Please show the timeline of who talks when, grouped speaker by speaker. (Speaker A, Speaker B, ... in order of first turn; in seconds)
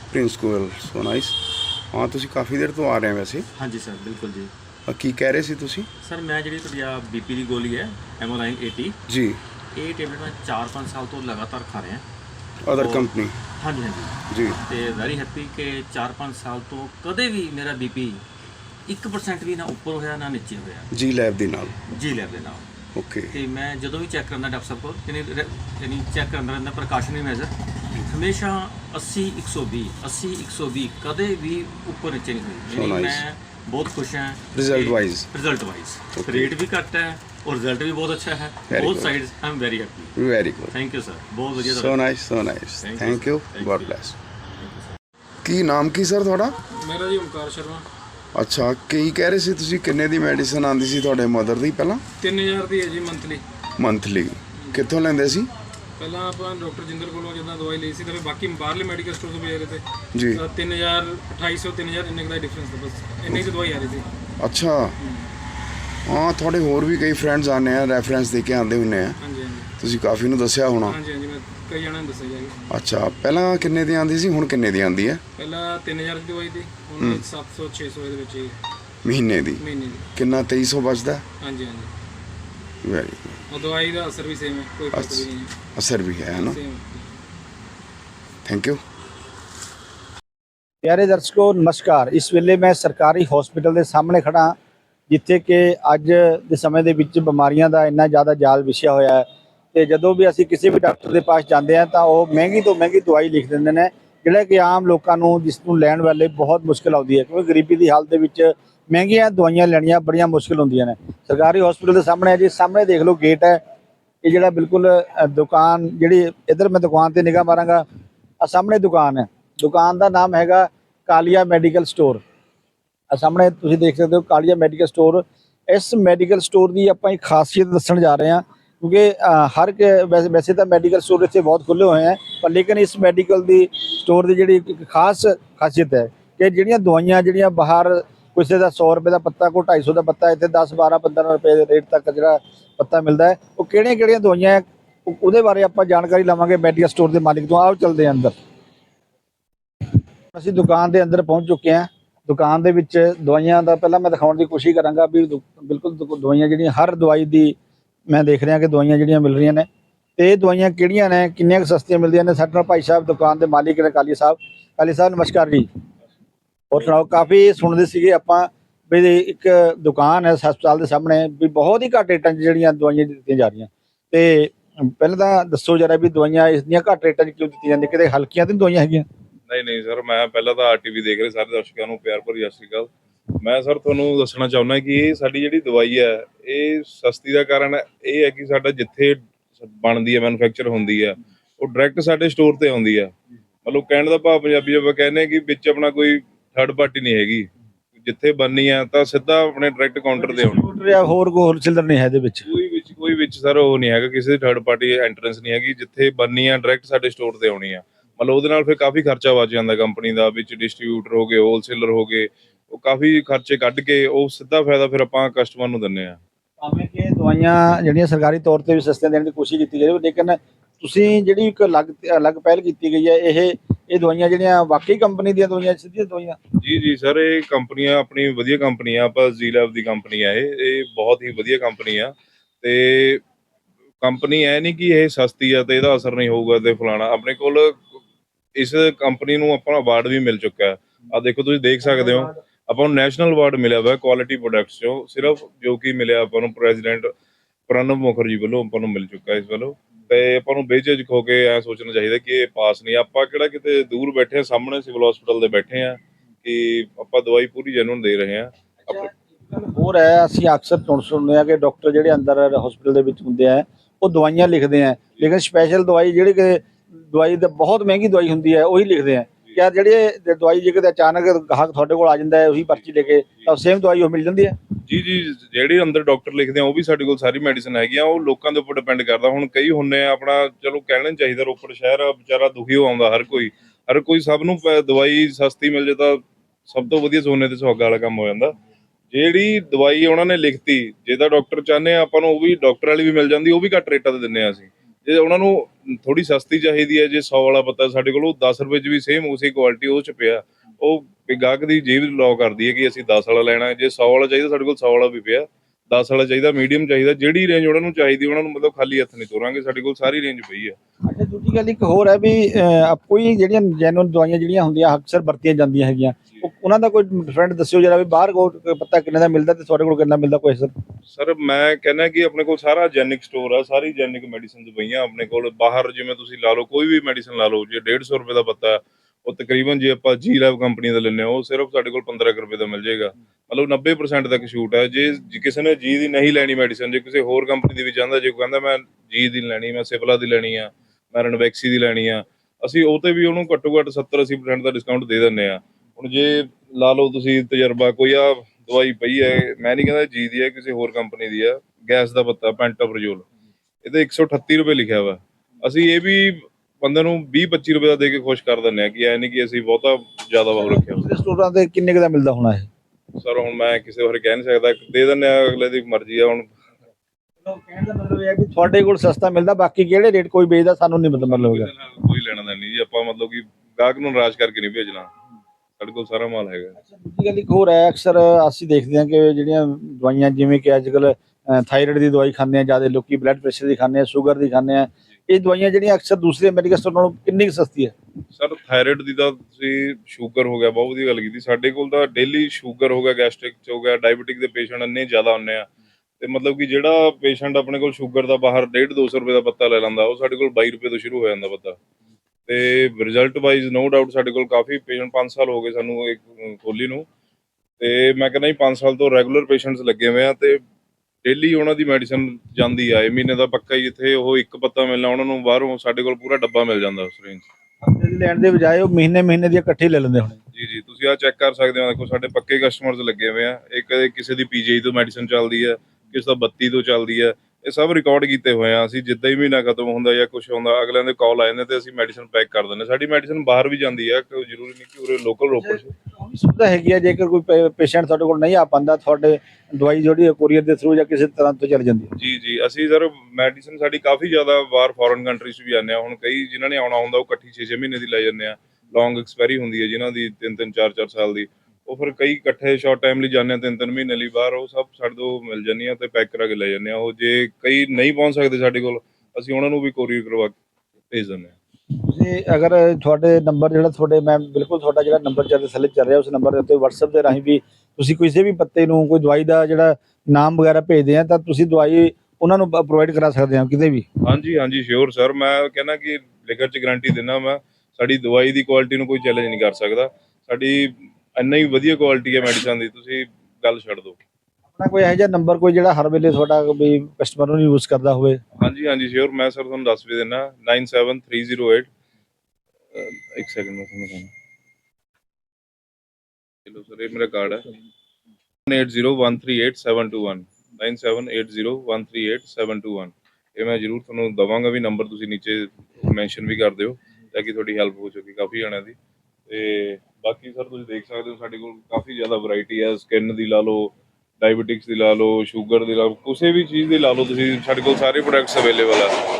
Speaker A: 0.1-1.4, 1.9-3.5, 4.9-5.9, 9.1-9.4, 12.6-13.3, 14.3-14.6, 20.9-21.7, 22.9-23.3, 32.7-33.2, 34.5-35.3, 36.1-36.5, 38.7-39.1, 40.2-40.7, 41.6-44.1, 45.4-46.5, 48.3-52.0, 53.8-55.5, 60.1-60.4, 64.4-64.9, 66.0-69.2, 69.8-71.0, 72.7-75.2, 79.0-79.6, 80.2-81.2, 82.8-83.4, 84.9-86.6, 88.4-88.8
Speaker B: 3.6-4.5, 6.0-9.0, 9.7-12.0, 12.7-18.2, 18.9-20.9, 21.9-22.6, 23.3-27.5, 28.1-40.2, 40.7-42.0, 42.8-44.0, 44.6-45.0
Speaker C: 46.7-47.8, 52.2-53.4, 56.0-59.8, 60.3-64.0, 65.0-65.2, 69.2-69.7, 70.8-72.6, 75.4-78.6, 79.6-80.0, 81.4-81.9, 83.5-85.5, 86.4-87.1
Speaker D: 90.8-94.5, 95.1-113.6, 114.2-117.8, 118.4-122.2, 123.1-148.3, 150.3-157.6, 158.1-165.7, 166.7-179.1, 200.2-202.5, 216.6-226.4, 241.8-242.3, 258.9-274.6, 311.1-320.7, 360.5-362.7, 367.4-371.7, 376.8-387.9, 417.8-420.4, 435.6-442.1, 461.9-474.0, 484.8-488.4
Speaker E: 179.5-182.9, 183.4-193.1, 193.6-197.5, 198.0-200.6, 202.5-216.2, 226.6-233.2, 234.0-238.0, 238.6-247.1, 247.7-258.5, 274.9-288.5, 289.1-310.8, 321.1-353.2, 353.8-361.1, 363.2-366.5, 371.2-375.1, 375.8-376.8, 388.3-395.7, 396.2-401.8, 402.5-407.1, 407.8-410.6, 411.2-417.4, 420.5-435.9, 442.1-460.5, 461.1-461.5, 474.2-484.2, 488.6-491.9, 492.9-494.3, 496.7-497.7, 498.7-508.9, 509.5-519.1